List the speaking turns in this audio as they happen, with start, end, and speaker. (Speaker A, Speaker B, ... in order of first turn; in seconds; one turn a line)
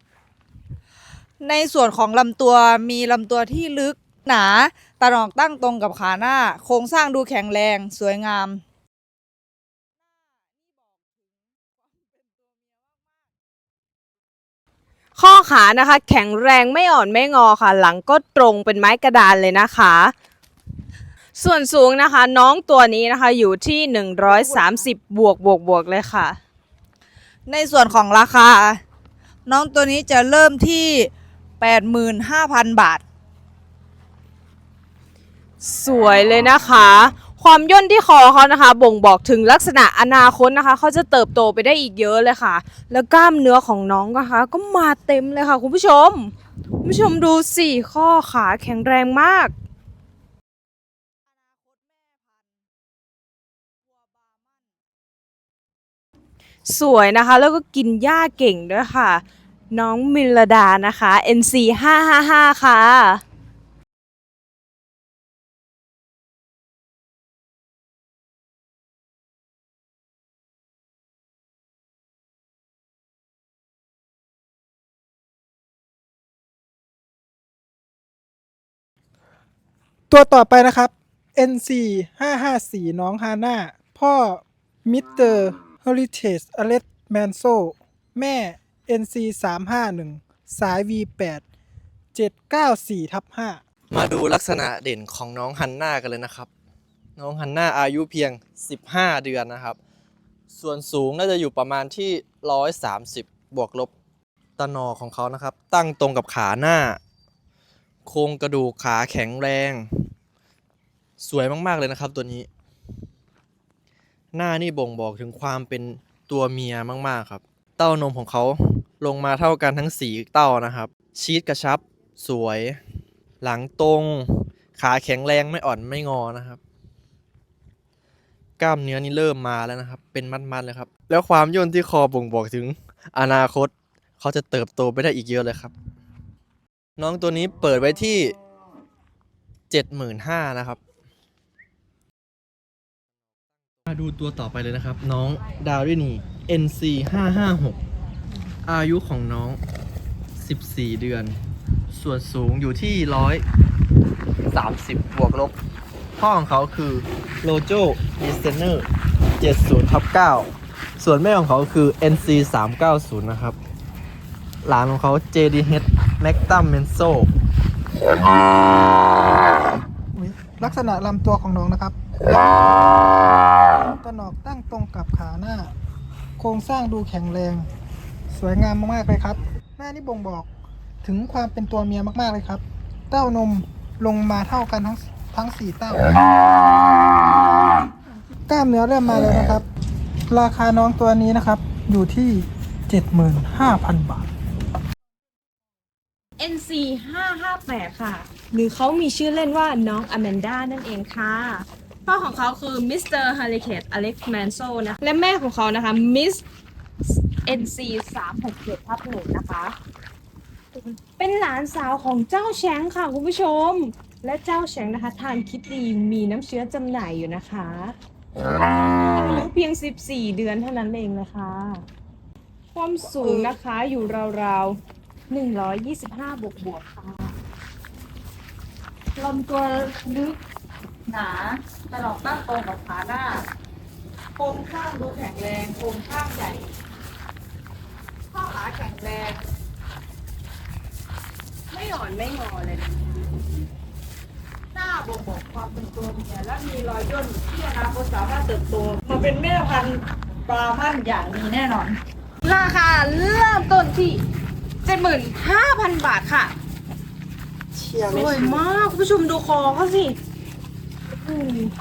Speaker A: 1.4-8.6
Speaker B: 15.1-20.1
Speaker B: 21.4-26.4
Speaker A: 24.2-24.8
Speaker A: 27.5-28.8
Speaker A: 29.5-33.0
Speaker B: 35.6-49.5
Speaker B: 56.6-63.2
Speaker C: 80.1-91.4
Speaker C: 92.1-93.6
Speaker D: 93.9-96.5
Speaker D: 97.2-99.8
Speaker D: 100.5-103.9
Speaker D: 104.6-107.0
Speaker D: 108.1-109.9
Speaker D: 111.2-112.5
Speaker D: 114.3-122.8
Speaker D: 123.4-126.6
Speaker D: 128.6-135.7
Speaker D: 137.0-138.3
Speaker D: 139.7-140.8
Speaker D: 143.9-147.8
Speaker D: 148.6-149.6
Speaker D: 150.4-151.4
Speaker D: 151.9-153.4
Speaker D: 154.5-155.5
Speaker D: 156.2-158.9
Speaker D: 159.4-163.6
Speaker D: 164.6-167.3
Speaker C: 170.1-172.6
Speaker C: 173.8-175.7
Speaker C: 176.4-177.7
Speaker C: 178.3-180.5
Speaker C: 181.0-186.1
Speaker C: 188.5-189.7
Speaker C: 190.3-194.3
Speaker B: 196.4-206.4
Speaker B: 207.4-209.8
Speaker B: 210.8-217.9
Speaker B: 218.9-221.8
Speaker B: 222.7-224.8
Speaker A: 223.2-223.5
Speaker B: 225.3-227.3
Speaker A: 229.2-230.4
Speaker A: 231.1-233.4
Speaker A: 234.4-236.7
Speaker A: 238.3-239.4
Speaker B: 241.7-242.9
Speaker A: 244.8-252.0
Speaker B: 252.4-254.2
Speaker B: 254.8-256.5
Speaker B: 258.1-260.1
Speaker B: 261.1-261.7